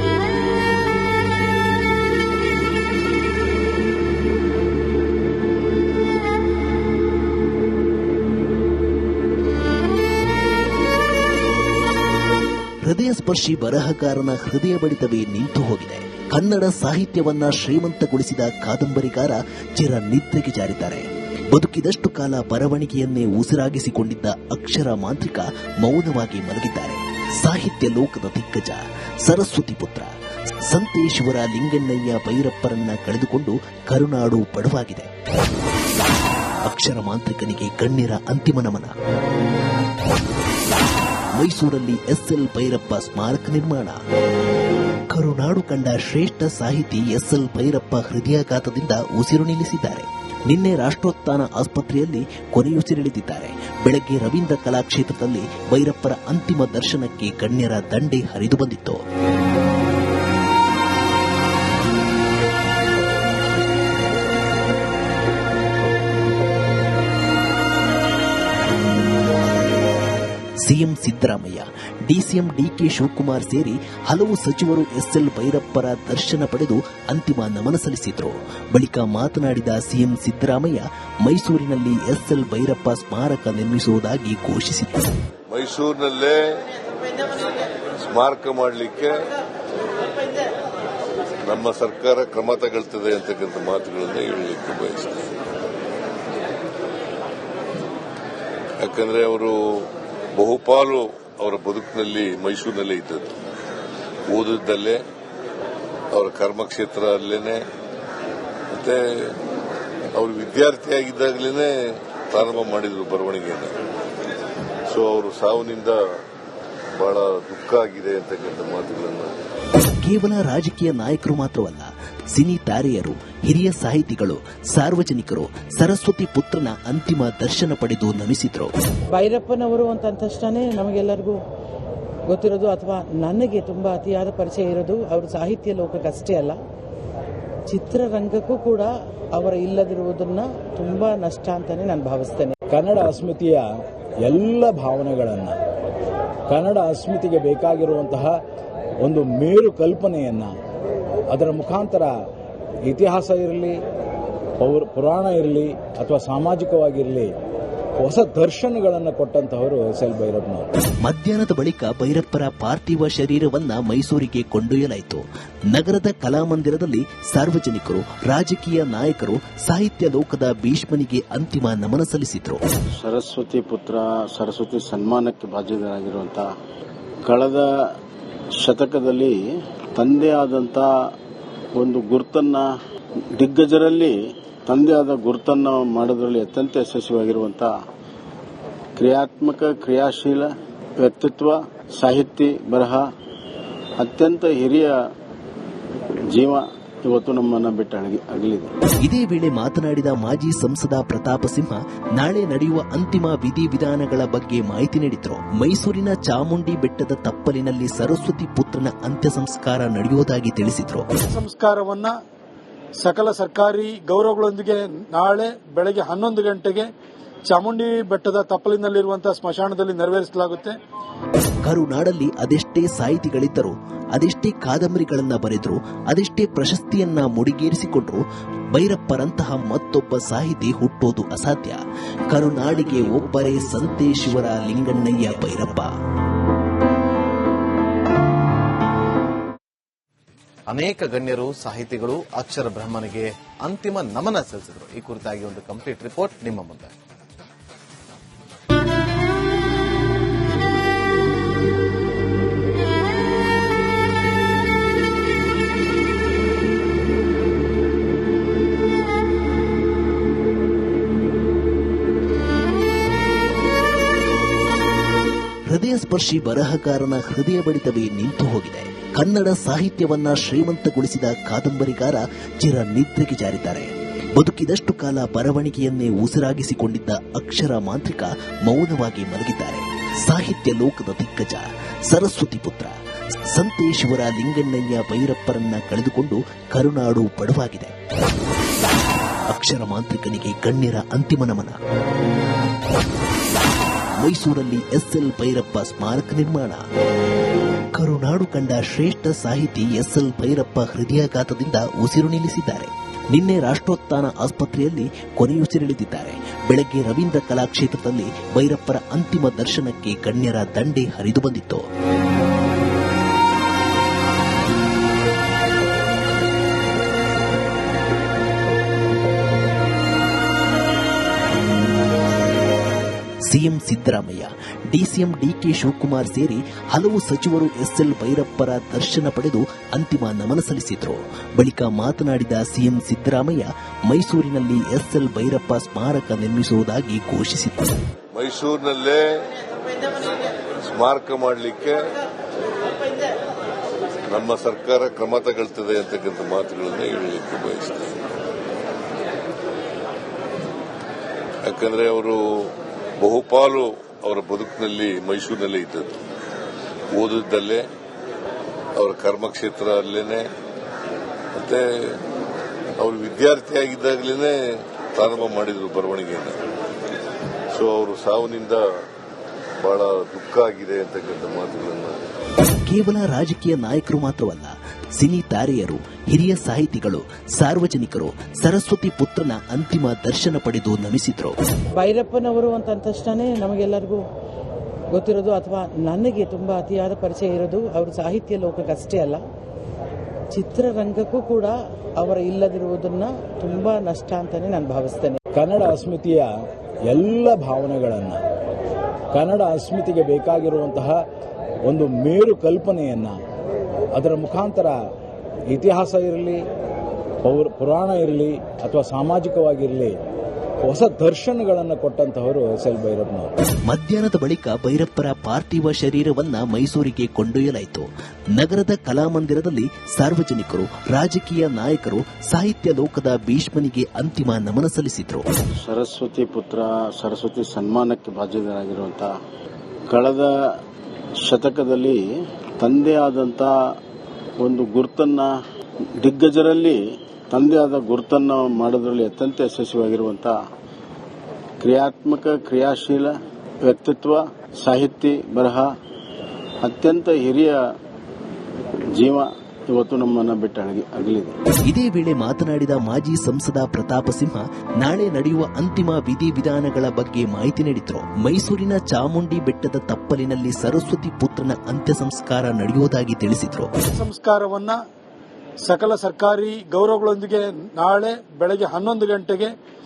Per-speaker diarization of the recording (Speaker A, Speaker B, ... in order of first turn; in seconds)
Speaker A: 12.8-30.1, 30.7-35.1, 36.6-38.9, 41.3-44.0, 45.1-59.0, 70.6-85.1, 120.0-128.7, 161.0-172.6, 199.0-211.1, 221.6-235.9, 265.7-282.9, 283.5-287.9, 289.5-291.7, 294.2-296.8, 297.9-311.8, 323.4-337.9, 372.9-381.6, 413.9-425.5, 451.9-463.9
Speaker B: 85.5-87.4, 88.0-89.3, 91.5-95.3, 98.8-103.3, 104.3-105.0, 106.1-107.6, 108.7-109.0, 110.2-111.7, 112.3-113.7, 114.9-116.0, 117.0-119.3, 338.3-342.1, 344.3-348.2, 351.6-356.1, 357.1-357.8, 359.0-360.4, 361.6-361.8, 363.0-364.5, 365.1-366.6, 367.7-368.8, 369.8-372.2
Speaker C: 129.1-131.4, 132.3-136.6, 137.7-142.5, 382.0-384.2, 385.1-389.4, 390.5-395.4
Speaker D: 142.7-143.6, 144.2-145.6, 146.5-148.3, 149.0-150.5, 151.3-152.1, 152.9-153.8, 154.6-157.3, 158.0-160.7, 395.5-396.5, 397.1-398.4, 399.3-401.2, 401.9-403.4, 404.1-404.9, 405.7-406.6, 407.4-410.1, 410.8-413.5
Speaker E: 173.0-176.5, 177.2-177.7, 178.6-179.4, 179.9-180.9, 181.8-182.7, 183.3-184.1, 184.7-187.7, 189.0-193.0, 194.0-194.9, 196.3-198.7, 425.8-429.3, 430.1-430.5, 431.4-432.2, 432.8-433.7, 434.6-435.5, 436.2-440.6, 441.8-445.9, 446.8-447.8, 449.1-451.5
Speaker F: 211.3-212.1, 213.0-216.9, 217.5-220.7, 464.1-464.9, 465.8-469.7
Speaker G: 240.7-246.9